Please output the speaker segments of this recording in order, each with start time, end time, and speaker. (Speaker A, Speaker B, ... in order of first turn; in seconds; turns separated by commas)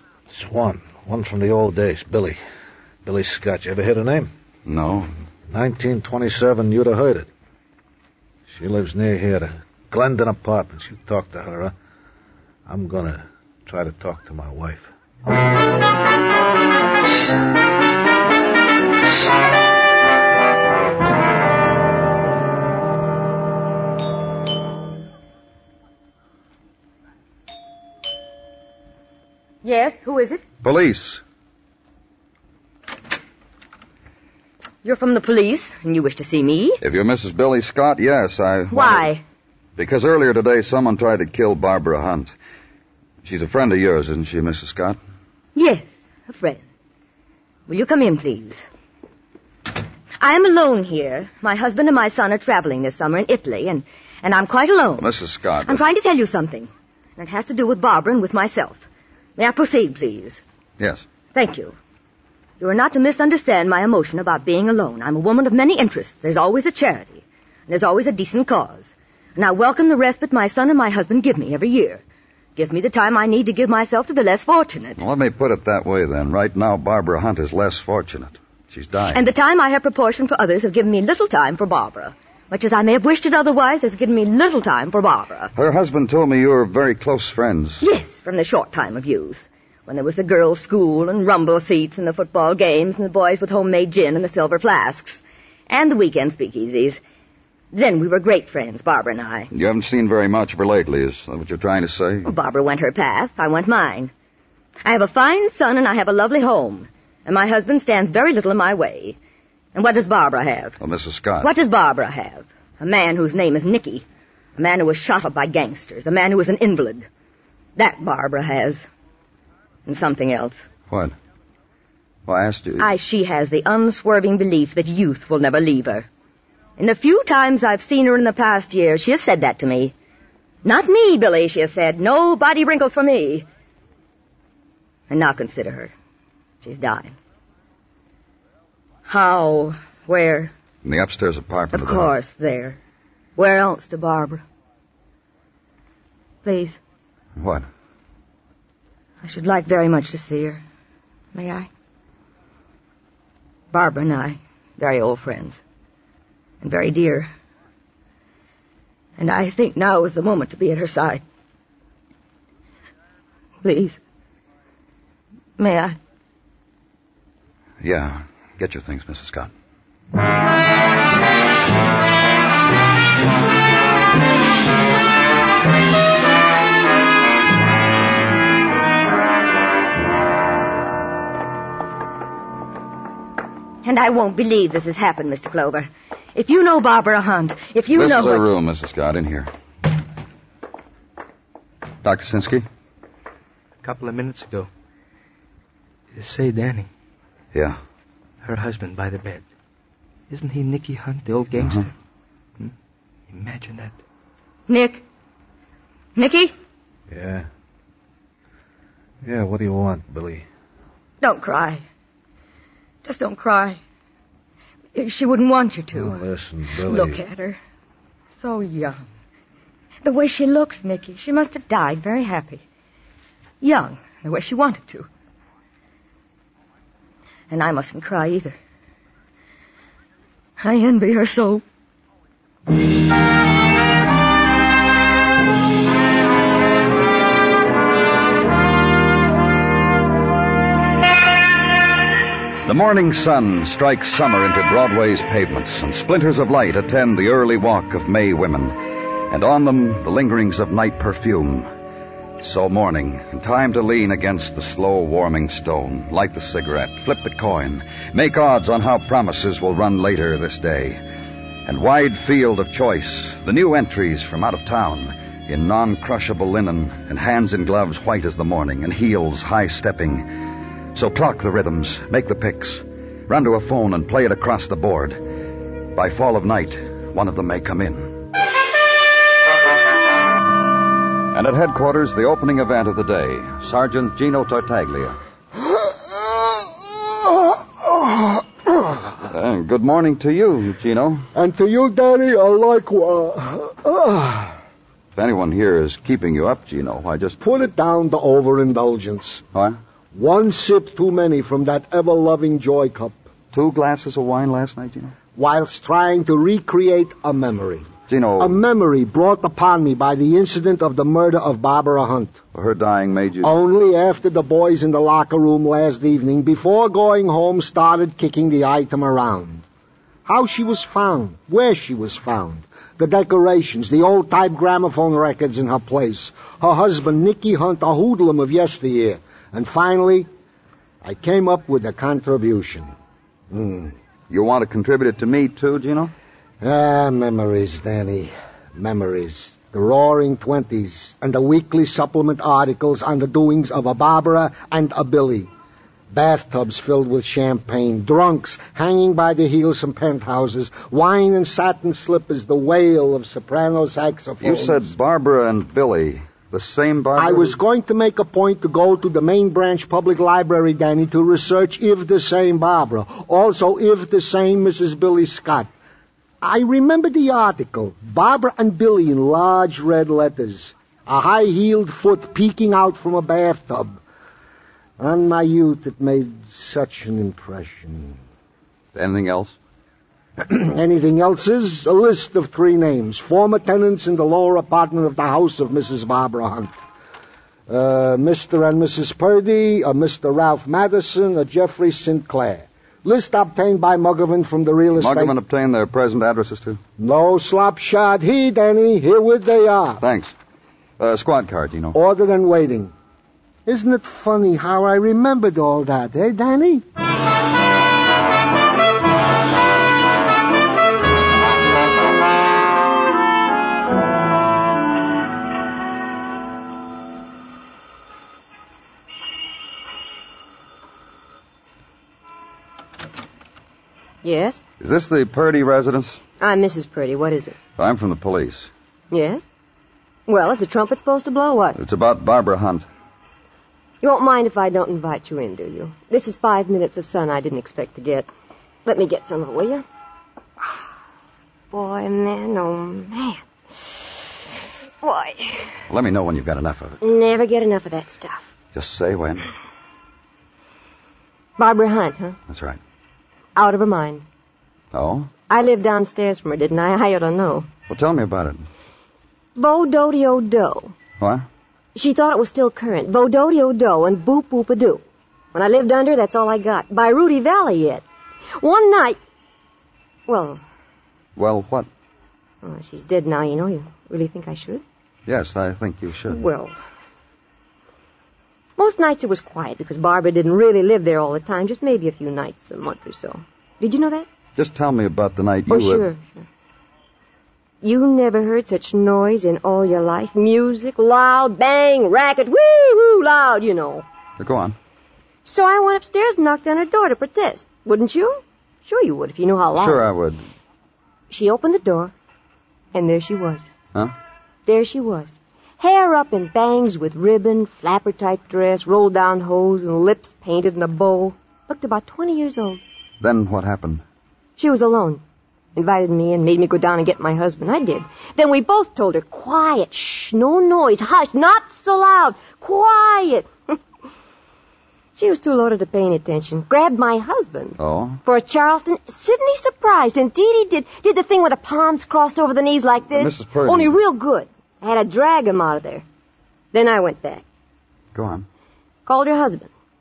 Speaker A: 0.3-2.4, Speaker A: 3.0-4.3, Speaker B: 4.7-5.1, Speaker A: 5.5-7.3, Speaker A: 8.5-11.7, Speaker A: 12.7-14.9, Speaker C: 29.6-30.4, Speaker B: 30.6-31.2, Speaker C: 34.8-36.8, Speaker B: 36.8-39.1, Speaker C: 38.7-39.2, Speaker B: 39.8-42.3, Speaker B: 43.2-45.0, Speaker C: 45.5-46.6, Speaker C: 47.7-48.6, Speaker C: 50.2-55.1, Speaker B: 55.0-55.8, Speaker C: 55.6-58.9, Speaker C: 59.4-60.4, Speaker C: 61.3-61.8, Speaker C: 62.6-72.0, Speaker C: 72.5-75.0, Speaker B: 75.0-79.2, Speaker C: 79.1-85.5, Speaker B: 85.5-87.8, Speaker C: 87.8-97.0, Speaker C: 97.7-99.5, Speaker B: 99.5-102.3, Speaker C: 102.2-104.1, Speaker C: 104.8-109.2, Speaker C: 109.7-110.8, Speaker B: 110.8-111.5, Speaker C: 111.4-114.0, Speaker C: 114.6-117.1, Speaker C: 117.8-118.8, Speaker C: 119.8-120.6, Speaker B: 120.9-121.1, Speaker B: 122.2-122.9, Speaker C: 122.8-126.1, Speaker C: 126.8-129.9, Speaker C: 130.6-133.5, Speaker C: 135.1-135.9, Speaker C: 136.6-137.1, Speaker C: 139.1-140.5, Speaker B: 140.8-142.1, Speaker C: 141.7-142.8, Speaker C: 143.4-144.4, Speaker C: 146.4-146.8, Speaker B: 147.4-147.6, Speaker C: 149.2-150.6, Speaker C: 151.3-151.7, Speaker C: 153.7-155.6, Speaker C: 156.6-157.3, Speaker C: 159.2-161.2, Speaker C: 163.6-164.0, Speaker C: 165.6-165.9, Speaker B: 167.8-169.5, Speaker C: 183.8-188.5, Speaker B: 187.9-189.5, Speaker B: 192.0-192.7, Speaker D: 193.8-194.7, Speaker D: 196.1-196.9, Speaker B: 197.5-197.8, Speaker D: 198.4-199.4, Speaker D: 200.3-201.9, Speaker B: 201.6-201.9, Speaker D: 203.3-203.9, Speaker C: 204.7-205.0, Speaker C: 206.2-206.5, Speaker A: 207.1-207.4, Speaker A: 209.2-210.4, Speaker C: 211.2-211.8, Speaker C: 213.0-213.8, Speaker C: 214.9-216.2, Speaker A: 215.9-217.2, Speaker C: 216.8-217.6, Speaker C: 218.4-219.0, Speaker C: 220.0-222.6, Speaker C: 223.6-225.1, Speaker C: 227.5-228.6, Speaker C: 230.6-231.6, Speaker B: 242.6-248.8, Speaker B: 249.3-251.7, Speaker B: 252.4-261.0, Speaker B: 261.6-270.3, Speaker B: 270.9-275.2, Speaker B: 275.9-278.1, Speaker B: 281.3-285.1, Speaker E: 285.9-286.5, Speaker E: 287.4-288.4, Speaker B: 289.3-291.2, Speaker E: 291.3-294.5, Speaker B: 295.1-297.4, Speaker E: 297.4-299.4, Speaker E: 300.1-303.2, Speaker B: 303.5-305.1, Speaker E: 305.4-312.4, Speaker B: 308.1-308.6, Speaker B: 312.5-313.5, Speaker E: 313.4-319.6, Speaker E: 320.2-330.3, Speaker E: 331.0-332.9, Speaker E: 333.5-333.9, Speaker B: 334.3-336.1, Speaker E: 336.6-345.5, Speaker E: 346.1-354.9, Speaker B: 354.4-357.6, Speaker E: 357.1-365.7, Speaker E: 366.4-374.0, Speaker E: 375.0-378.2, Speaker B: 378.9-379.6, Speaker E: 380.4-386.7, Speaker E: 387.7-395.3, Speaker B: 395.0-396.8, Speaker E: 397.0-400.0, Speaker B: 400.0-400.3, Speaker B: 401.0-401.9, Speaker E: 401.9-402.9, Speaker E: 403.6-406.8, Speaker F: 424.2-424.6, Speaker B: 424.8-426.2, Speaker F: 426.4-427.6, Speaker B: 427.8-428.7, Speaker F: 429.1-429.4, Speaker F: 430.3-431.8, Speaker B: 431.8-432.9, Speaker F: 434.0-438.3, Speaker F: 438.9-439.8, Speaker F: 441.7-444.0, Speaker F: 445.0-445.7, Speaker B: 445.9-447.0, Speaker F: 447.0-448.5, Speaker B: 448.7-449.5, Speaker F: 451.6-452.4, Speaker B: 452.5-452.8, Speaker F: 453.6-454.2, Speaker B: 454.9-455.3, Speaker F: 455.5-457.7, Speaker B: 457.9-458.7, Speaker F: 459.6-460.9, Speaker B: 461.2-461.4, Speaker F: 461.9-465.0, Speaker F: 465.5-468.0, Speaker F: 468.6-469.2, Speaker F: 470.3-470.6, Speaker B: 471.4-471.9, Speaker F: 472.6-474.8, Speaker B: 475.3-476.4, Speaker F: 476.3-476.8, Speaker F: 478.8-484.3, Speaker B: 484.6-486.1, Speaker F: 485.7-486.4, Speaker F: 487.8-494.0, Speaker B: 494.4-494.8, Speaker F: 495.4-500.1, Speaker B: 499.8-500.4, Speaker F: 501.3-502.1, Speaker F: 502.9-503.7, Speaker F: 504.6-512.8, Speaker B: 513.2-514.0, Speaker F: 514.6-515.2, Speaker F: 515.7-523.8, Speaker F: 525.1-536.0, Speaker B: 527.8-528.2, Speaker B: 533.1-533.9, Speaker F: 536.7-537.4, Speaker B: 538.1-538.5, Speaker F: 539.0-539.7